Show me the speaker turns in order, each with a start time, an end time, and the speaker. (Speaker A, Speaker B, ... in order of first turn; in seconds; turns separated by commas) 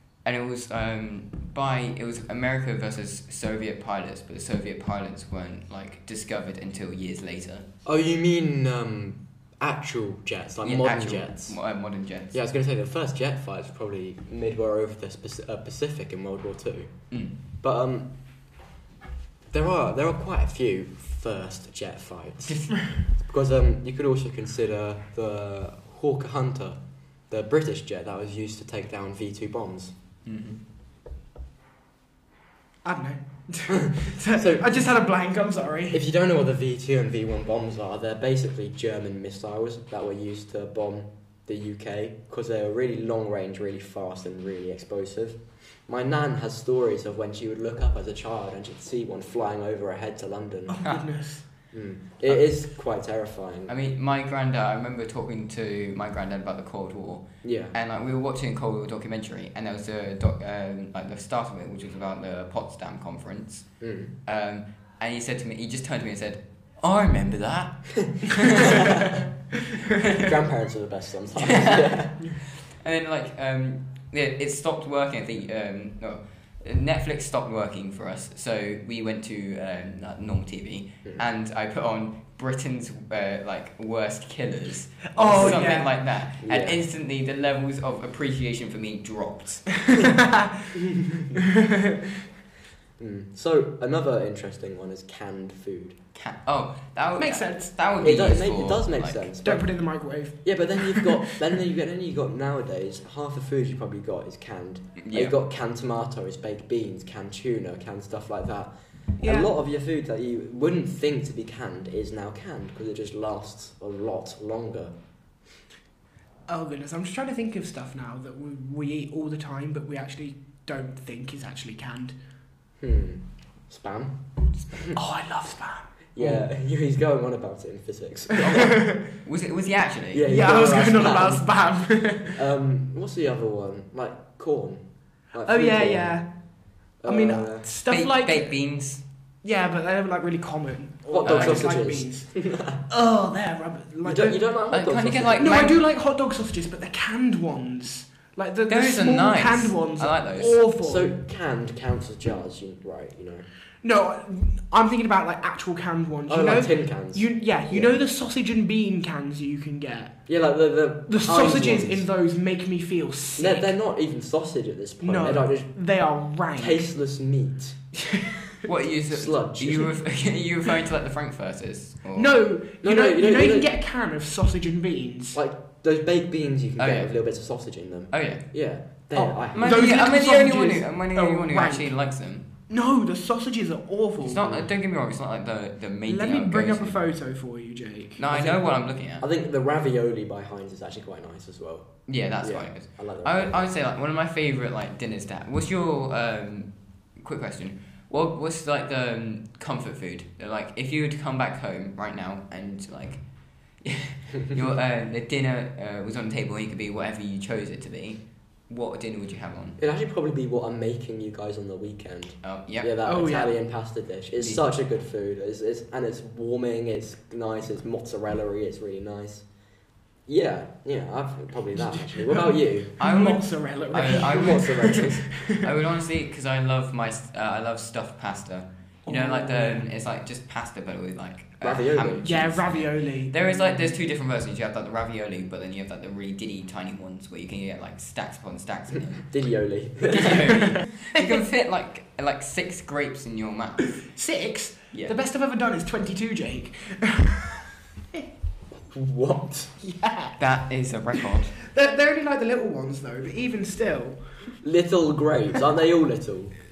Speaker A: 0.2-7.7, Speaker B: 7.8-11.6, Speaker A: 10.6-12.3, Speaker B: 12.3-16.9, Speaker B: 17.6-18.1, Speaker B: 19.5-29.9, Speaker A: 22.4-22.8, Speaker A: 30.2-30.6, Speaker C: 32.8-36.0, Speaker B: 34.3-34.8, Speaker B: 35.9-50.8, Speaker C: 50.7-51.4, Speaker B: 51.7-53.7, Speaker A: 53.7-63.7, Speaker B: 57.4-57.7, Speaker B: 63.8-64.1, Speaker A: 64.2-69.1, Speaker B: 68.6-69.2, Speaker B: 70.1-72.2, Speaker A: 71.4-90.0, Speaker C: 85.2-85.9, Speaker B: 85.3-85.6, Speaker B: 86.4-86.8, Speaker C: 89.9-90.8, Speaker B: 91.2-91.4, Speaker C: 91.3-92.0, Speaker B: 93.0-96.0, Speaker A: 96.1-99.3, Speaker C: 97.2-97.7, Speaker B: 98.0-99.7, Speaker C: 99.4-101.4, Speaker B: 100.4-114.9, Speaker A: 105.0-105.3, Speaker C: 109.2-109.5, Speaker C: 116.5-122.1, Speaker B: 122.8-125.0, Speaker C: 124.9-126.5, Speaker B: 126.2-128.8, Speaker C: 128.3-129.0, Speaker A: 129.2-130.2, Speaker B: 130.1-131.4, Speaker C: 130.2-132.4, Speaker B: 132.3-136.2, Speaker C: 135.4-136.3, Speaker B: 137.0-137.7, Speaker C: 137.1-138.5, Speaker A: 137.9-139.0, Speaker C: 139.4-142.3, Speaker B: 141.1-142.8, Speaker A: 141.2-141.6, Speaker C: 142.9-144.4, Speaker B: 144.0-145.7, Speaker A: 144.7-145.8, Speaker C: 145.4-151.1, Speaker A: 148.7-150.6, Speaker B: 150.8-153.5, Speaker C: 153.8-160.2, Speaker B: 156.3-157.9, Speaker B: 160.3-162.1, Speaker C: 161.1-163.7, Speaker B: 163.4-165.7, Speaker C: 165.0-166.8, Speaker B: 166.5-167.8, Speaker C: 168.0-168.4, Speaker A: 168.6-172.3, Speaker B: 169.1-169.9, Speaker C: 172.2-175.4, Speaker B: 172.8-173.7, Speaker B: 175.3-179.9, Speaker A: 176.8-177.1, Speaker A: 178.1-178.4, Speaker C: 179.1-181.9, Speaker A: 179.5-182.4, Speaker C: 182.7-184.5, Speaker A: 184.2-187.0, Speaker C: 186.1-188.2, Speaker A: 188.2-189.2, Speaker B: 188.3-193.7, Speaker A: 192.1-203.2, Speaker A: 203.8-209.8, Speaker B: 209.8-219.4, Speaker A: 212.4-212.9, Speaker C: 213.0-213.5, Speaker B: 220.3-222.9, Speaker C: 221.8-225.6, Speaker A: 223.0-239.2, Speaker B: 224.0-225.2, Speaker C: 229.1-229.8, Speaker B: 231.6-232.3, Speaker C: 232.2-233.3, Speaker B: 239.2-240.5, Speaker A: 240.0-244.0, Speaker C: 244.0-248.2, Speaker B: 248.9-249.7, Speaker C: 249.8-250.4, Speaker A: 250.4-251.5, Speaker C: 251.2-254.2, Speaker B: 254.6-256.5